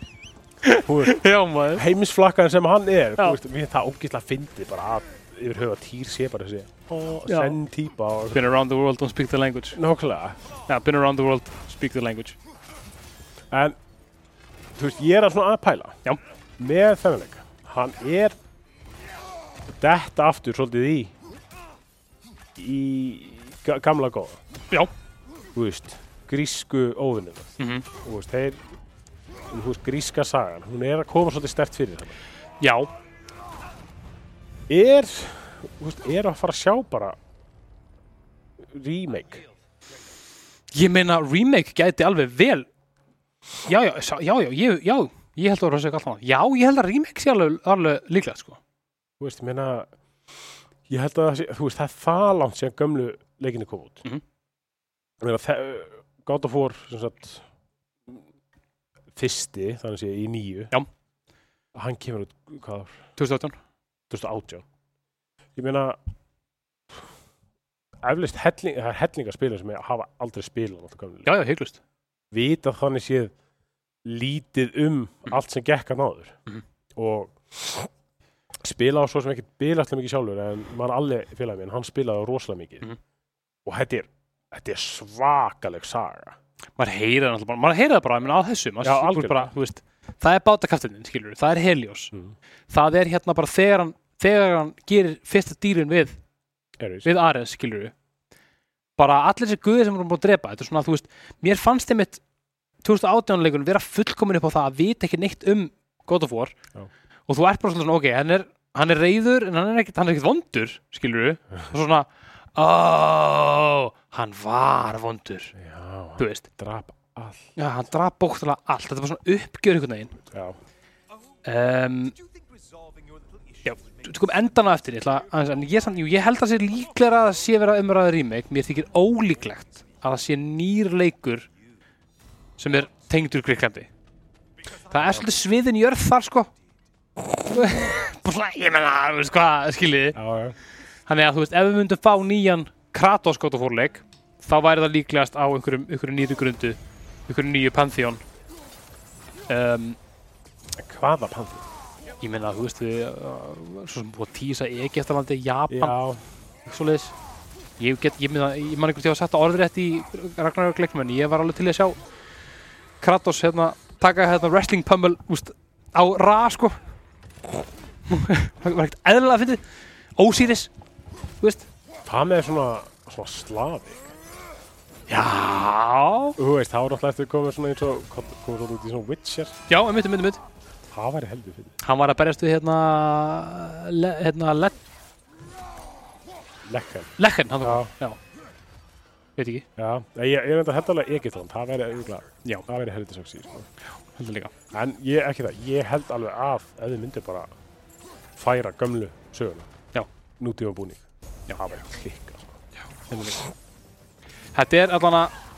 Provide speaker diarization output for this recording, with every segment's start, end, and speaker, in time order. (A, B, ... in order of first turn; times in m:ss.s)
0:00.6-0:01.8 A
0:00.8-0:01.2 B
0:01.7-0:08.4 B
0:07.3-0:07.6 A
0:08.3-0:09.8 A
0:09.7-0:10.4 B
0:10.7-0:12.4 A
0:13.5-0:13.8 B
0:14.8-0:16.0 B
0:16.6-0:18.4 B
0:19.7-0:21.1 B
0:22.6-0:24.4 B
0:25.5-0:28.6 B
0:27.6-0:27.8 A
0:29.5-0:32.2 B
0:32.6-0:32.9 A
0:34.7-0:37.1 B
0:38.6-0:39.4 B
0:40.7-0:42.7 A
0:43.6-0:48.6 A
0:49.2-0:49.9 B
0:50.9-0:54.0 B
0:55.2-0:57.4 B
0:59.1-1:00.7 B
1:01.7-1:03.0 B
1:03.2-1:03.6 A
1:04.1-1:04.6 B
1:05.6-1:06.0 B
1:08.0-1:11.3 B
1:11.2-1:11.8 A
1:12.3-1:13.3 B
1:14.0-1:16.4 B
1:17.0-1:17.9 B
1:18.6-1:22.8 B
1:23.6-1:26.4 B
1:26.8-1:32.1 A
1:28.8-1:29.5 B
1:32.7-1:36.2 A
1:36.8-1:37.1 B
1:37.0-1:37.9 A
1:39.0-1:42.2 A
1:42.8-1:46.5 A
1:47.3-1:55.5 A
1:55.5-1:57.5 B
1:56.2-1:56.4 A
1:57.6-2:00.2 A
2:00.3-2:00.6 B
2:01.4-2:02.1 A
2:03.6-2:11.5 A
2:12.6-2:13.9 A
2:14.9-2:16.5 A
2:17.4-2:20.2 A
2:20.1-2:20.6 B
2:21.1-2:26.8 A
2:27.3-2:28.2 A
2:29.5-2:30.0 A
2:30.8-2:31.6 B
2:32.2-2:36.0 A
2:35.7-2:36.2 B
2:36.6-2:37.1 A
2:37.8-2:42.0 A
2:43.0-2:46.8 A
2:48.1-2:49.6 A
2:50.2-2:50.7 A
2:51.4-2:51.7 A
2:52.0-2:54.1 B
2:55.1-2:56.4 A
2:56.4-2:59.6 B
2:59.7-3:00.4 A
3:00.9-3:01.8 B
3:01.8-3:04.8 A
3:06.6-3:07.9 B
3:07.2-3:08.2 A
3:09.4-3:09.6 A
3:09.8-3:13.7 B
3:14.1-3:14.5 A
3:14.7-3:17.5 B
3:18.4-3:19.7 B
3:20.4-3:22.6 B
3:23.1-3:23.4 A
3:24.5-3:25.3 A